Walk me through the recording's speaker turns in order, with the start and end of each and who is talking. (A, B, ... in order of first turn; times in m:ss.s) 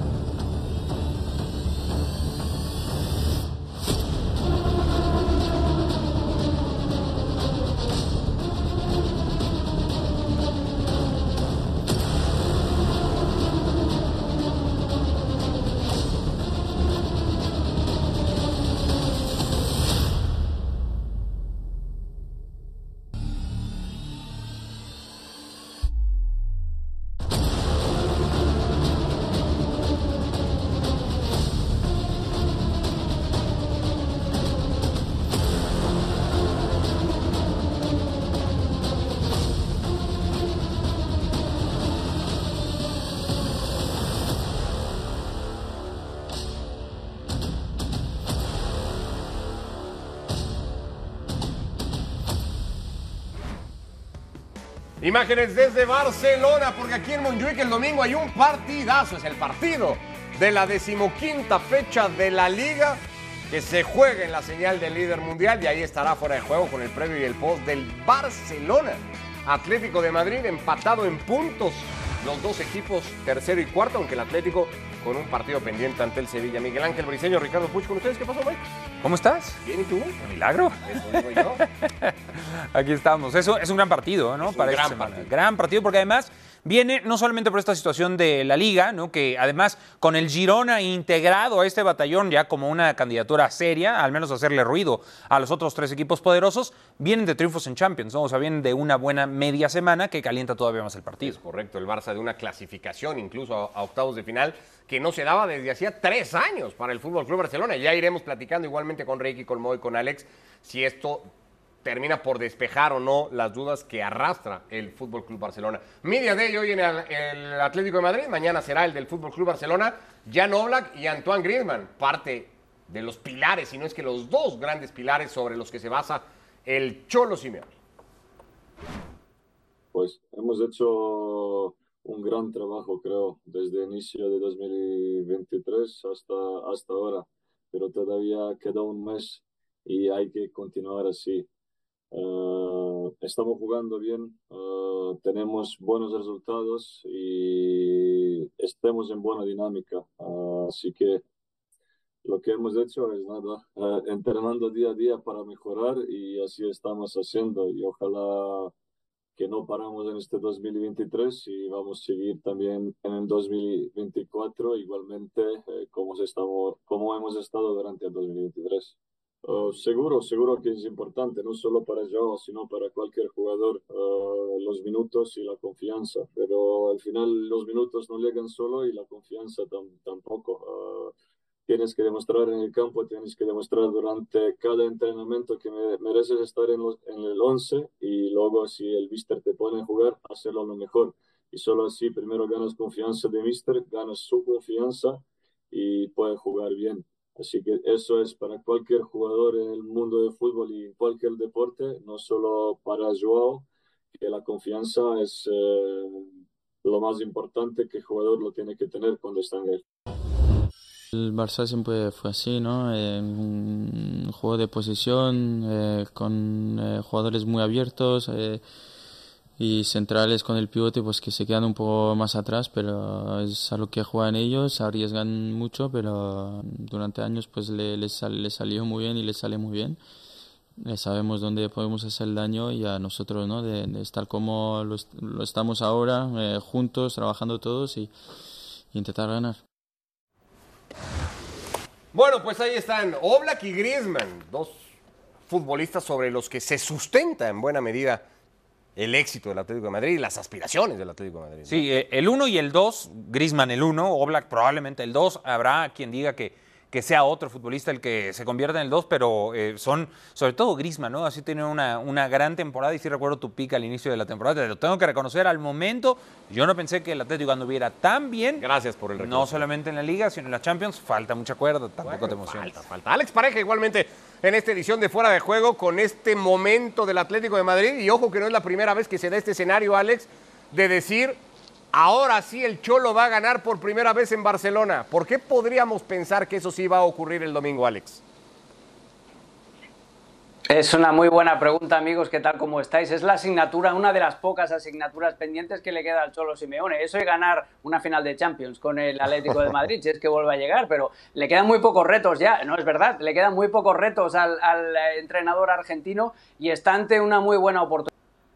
0:55.0-1:18.6 A
1:19.0-1:19.6 B
1:19.6-1:20.2 A
1:20.2-1:41.4 B
1:20.9-1:21.6 A
1:24.4-1:25.3 A
1:41.2-1:51.3 A
1:51.8-2:07.7 A
2:09.9-2:21.5 C
2:22.1-2:31.2 C
2:32.2-2:38.7 C
2:39.4-3:01.1 C
3:01.7-3:26.3 C
3:26.8-3:29.8 C
3:31.1-3:38.6 D
3:39.6-3:50.0 D
3:50.8-3:58.1 D
3:58.9-3:59.6 D
4:02.1-4:04.8 A
4:05.5-4:08.2 A
4:09.0-4:11.8 A
4:11.7-4:28.6 B
4:28.6-4:29.7 A
4:29.2-4:32.7 B
4:32.1-4:41.4 A
4:41.9-4:48.2 A
4:50.7-5:08.1 E